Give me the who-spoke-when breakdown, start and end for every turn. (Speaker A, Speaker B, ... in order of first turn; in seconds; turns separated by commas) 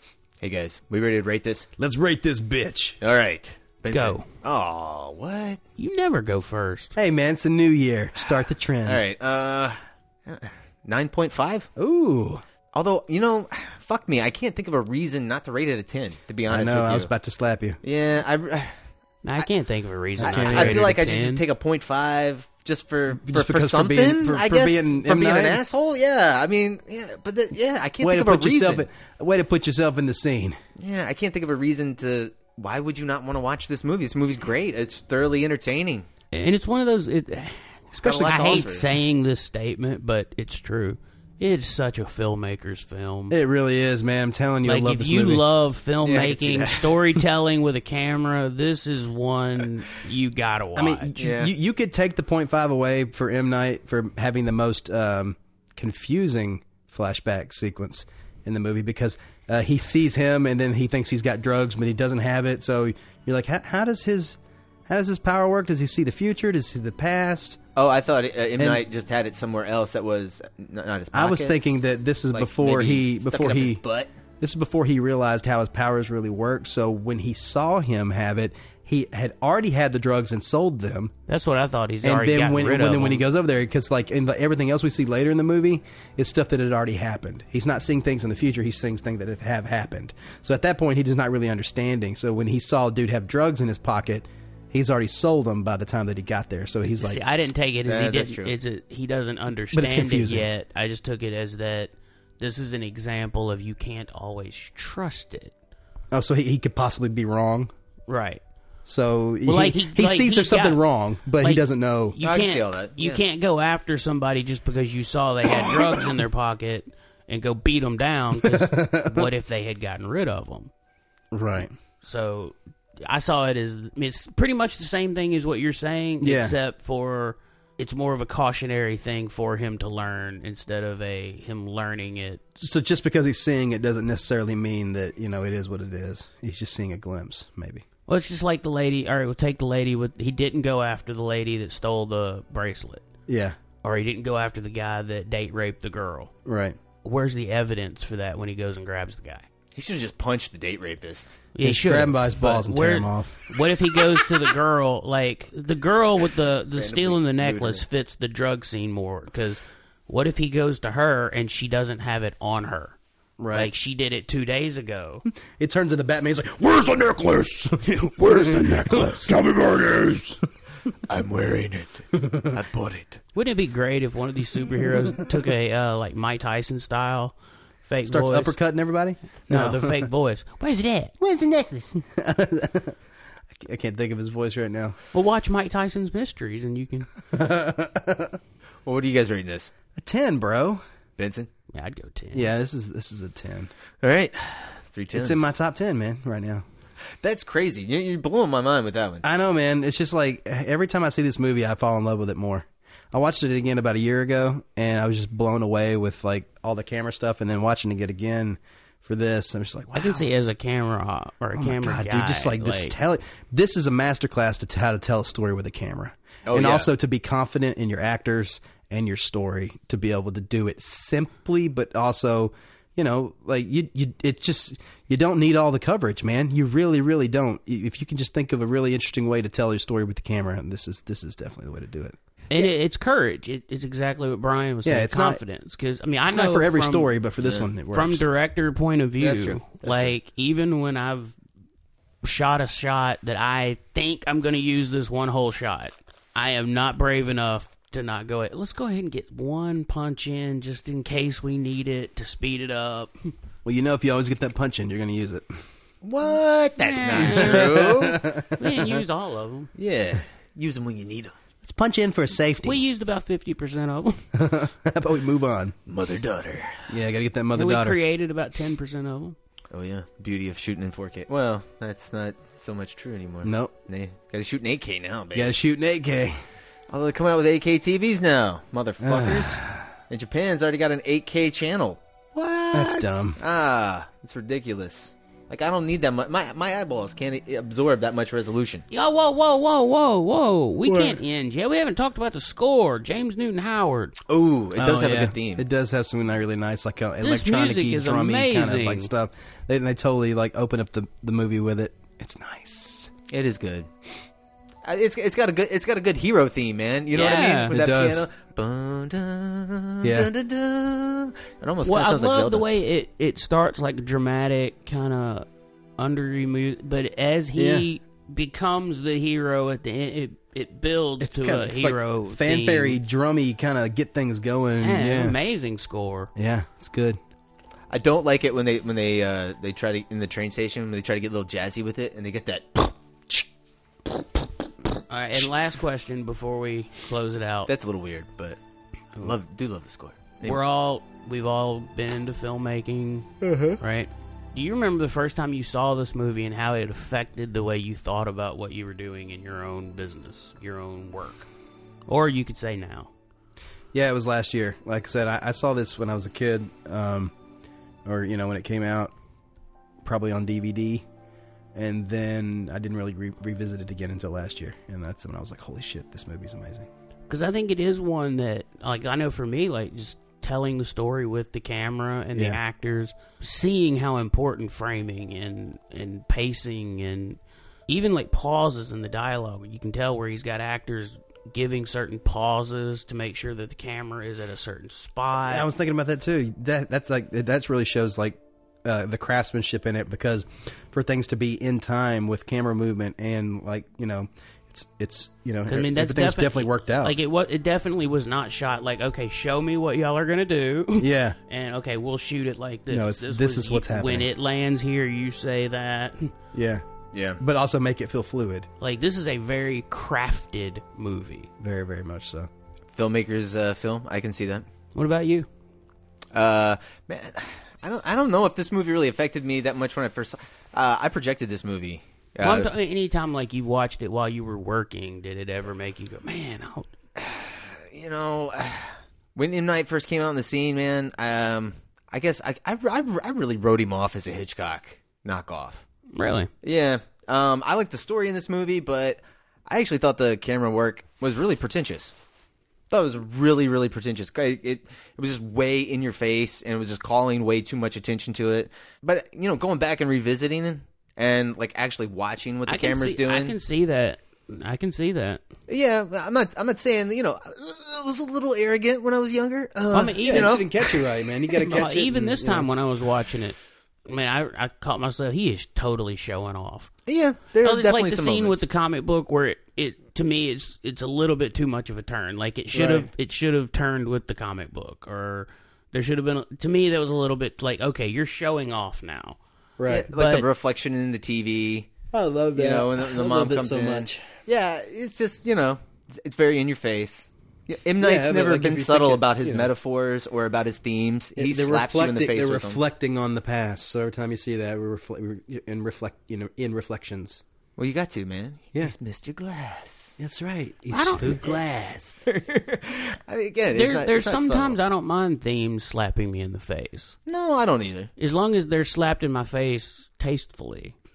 Speaker A: 0.4-1.7, Speaker B: 1.8-3.0, Speaker A: 3.0-5.6, Speaker C: 3.9-4.3, Speaker C: 5.8-6.9, Speaker B: 7.0-9.0, Speaker A: 8.8-11.7, Speaker B: 11.8-12.4, Speaker A: 12.7-17.1, Speaker B: 16.5-17.8, Speaker A: 17.8-18.7, Speaker C: 19.2-21.4, Speaker B: 20.2-20.9, Speaker A: 20.2-28.9, Speaker B: 23.1-25.6, Speaker B: 28.0-30.6, Speaker A: 30.8-36.1, Speaker C: 36.3-43.3, Speaker B: 37.9-38.7, Speaker A: 38.0-38.9, Speaker B: 43.3-45.4, Speaker C: 44.6-51.1, Speaker A: 46.0-47.0, Speaker B: 50.8-67.6, Speaker A: 51.2-51.5, Speaker A: 67.7-74.1, Speaker B: 68.6-68.8, Speaker B: 71.1-73.8, Speaker B: 74.4-81.1, Speaker C: 81.3-83.2, Speaker B: 82.0-97.2, Speaker C: 97.0-105.5, Speaker A: 97.8-98.5, Speaker B: 99.7-100.5, Speaker B: 106.1-107.7, Speaker C: 108.1-108.4, Speaker B: 108.9-112.1, Speaker C: 109.5-120.7, Speaker A: 112.2-113.2, Speaker B: 118.4-119.2, Speaker B: 121.3-121.7, Speaker C: 122.0-132.4, Speaker B: 126.2-126.5, Speaker B: 132.6-137.8, Speaker C: 138.1-143.0, Speaker B: 143.3-143.6, Speaker C: 143.8-146.3, Speaker B: 146.4-146.8, Speaker C: 147.0-149.4, Speaker A: 149.7-151.4, Speaker C: 151.6-162.9, Speaker B: 151.6-153.4, Speaker A: 156.7-157.8, Speaker B: 163.4-163.7, Speaker C: 163.5-165.2, Speaker B: 165.5-170.4, Speaker C: 167.8-169.3, Speaker A: 171.1-173.2, Speaker B: 172.2-172.5, Speaker C: 173.3-177.3, Speaker C: 177.8-178.6, Speaker B: 178.1-180.0, Speaker C: 179.5-181.1, Speaker B: 181.2-183.0, Speaker B: 183.6-185.0, Speaker C: 185.1-187.1, Speaker B: 187.3-188.4, Speaker A: 188.8-189.7, Speaker B: 189.9-190.8, Speaker A: 191.2-191.5, Speaker C: 191.7-192.5, Speaker B: 192.3-193.7, Speaker A: 194.0-195.5, Speaker B: 195.1-196.6, Speaker A: 197.2-199.2, Speaker B: 199.2-210.2, Speaker C: 209.9-212.9, Speaker B: 211.6-232.2, Speaker A: 216.4-216.9, Speaker C: 232.5-237.2, Speaker B: 234.8-235.4, Speaker B: 236.3-238.2, Speaker A: 237.4-237.7, Speaker C: 237.9-241.3, Speaker A: 239.2-240.1, Speaker C: 242.2-253.3, Speaker B: 253.6-255.5, Speaker A: 256.0-258.2, Speaker C: 256.8-257.8, Speaker B: 257.3-258.9, Speaker C: 258.6-259.7, Speaker A: 259.8-261.4, Speaker B: 261.6-262.8, Speaker C: 262.6-264.2, Speaker B: 264.3-265.7, Speaker A: 265.9-266.9, Speaker B: 266.9-268.0, Speaker C: 267.5-269.4, Speaker A: 269.7-275.5, Speaker B: 273.4-273.7, Speaker B: 275.3-276.4, Speaker A: 276.9-288.8, Speaker B: 279.0-279.9, Speaker B: 282.7-283.4, Speaker C: 288.9-294.1, Speaker A: 294.3-295.6, Speaker B: 294.8-303.1, Speaker C: 297.2-299.1, Speaker A: 303.3-303.9, Speaker A: 304.8-312.7, Speaker C: 307.1-307.7, Speaker B: 307.6-308.2, Speaker B: 310.0-310.3, Speaker C: 311.8-315.4, Speaker C: 316.0-323.0, Speaker B: 317.6-317.9, Speaker B: 321.2-325.4, Speaker C: 324.8-326.3, Speaker B: 326.4-327.2, Speaker A: 327.9-333.5, Speaker C: 335.1-337.7, Speaker A: 337.7-338.6, Speaker A: 339.2-340.6, Speaker C: 340.4-343.3, Speaker A: 343.4-343.8, Speaker C: 343.8-351.5, Speaker C: 352.1-353.1, Speaker B: 353.9-357.3, Speaker B: 358.0-359.1, Speaker B: 360.0-361.0, Speaker B: 361.7-366.9, Speaker C: 367.3-385.7, Speaker B: 385.5-397.1, Speaker C: 395.7-406.3, Speaker B: 401.0-401.4, Speaker B: 402.9-404.3, Speaker B: 406.5-406.8, Speaker A: 407.1-407.4, Speaker B: 407.4-408.7, Speaker C: 408.8-411.5, Speaker B: 411.6-412.5, Speaker A: 412.9-414.7, Speaker C: 414.9-415.5, Speaker A: 416.3-422.7, Speaker C: 422.4-426.9, Speaker A: 427.2-435.9, Speaker C: 436.1-436.5, Speaker A: 436.6-442.1, Speaker A: 442.9-453.5, Speaker C: 452.7-455.4, Speaker A: 455.7-460.9, Speaker C: 459.9-460.6, Speaker B: 459.9-462.7, Speaker C: 461.6-466.9, Speaker A: 467.1-468.6, Speaker C: 467.6-479.4, Speaker B: 472.7-473.1, Speaker B: 479.8-480.1, Speaker A: 479.9-481.9, Speaker C: 479.9-480.4, Speaker B: 482.1-484.3, Speaker A: 482.5-492.8, Speaker B: 488.0-489.7, Speaker B: 491.4-497.4, Speaker A: 497.8-500.2, Speaker B: 500.2-502.2, Speaker C: 500.9-501.6, Speaker A: 502.3-504.8, Speaker C: 503.7-507.1, Speaker A: 507.2-508.1, Speaker C: 508.2-510.9